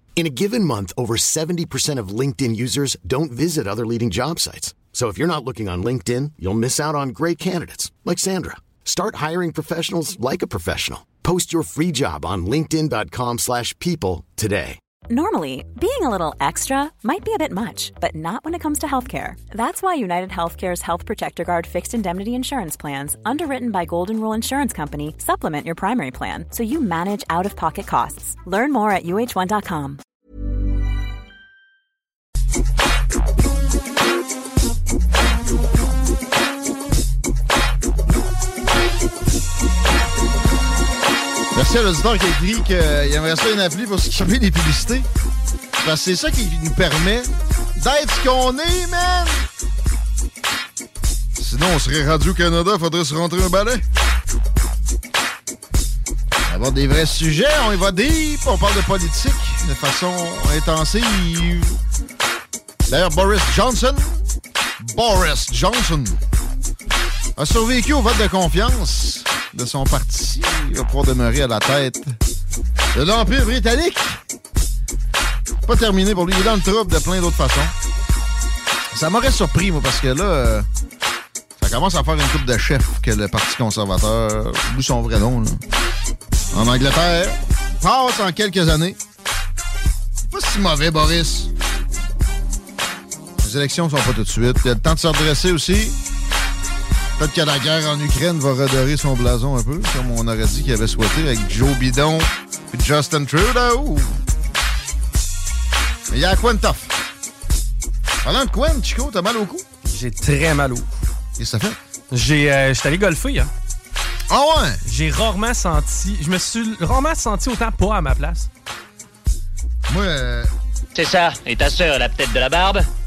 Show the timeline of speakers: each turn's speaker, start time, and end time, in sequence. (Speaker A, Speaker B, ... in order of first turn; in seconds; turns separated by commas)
Speaker A: 0.1-14.8, Speaker B: 15.1-30.0, Speaker C: 41.5-45.1, Speaker C: 45.8-49.5, Speaker C: 51.4-53.8, Speaker C: 56.5-61.8, Speaker C: 62.9-64.2, Speaker C: 64.8-66.2, Speaker C: 67.4-72.1, Speaker C: 72.9-74.2, Speaker C: 75.6-77.7, Speaker C: 78.9-80.7, Speaker C: 81.6-85.6, Speaker C: 86.5-89.0, Speaker C: 90.3-91.5, Speaker C: 93.4-96.0, Speaker C: 97.2-104.2, Speaker C: 106.1-106.9, Speaker C: 108.2-109.6, Speaker D: 109.8-110.9, Speaker C: 111.4-111.8, Speaker D: 112.1-113.5, Speaker C: 114.3-114.8, Speaker D: 114.8-118.5, Speaker C: 119.9-120.5, Speaker E: 120.9-122.9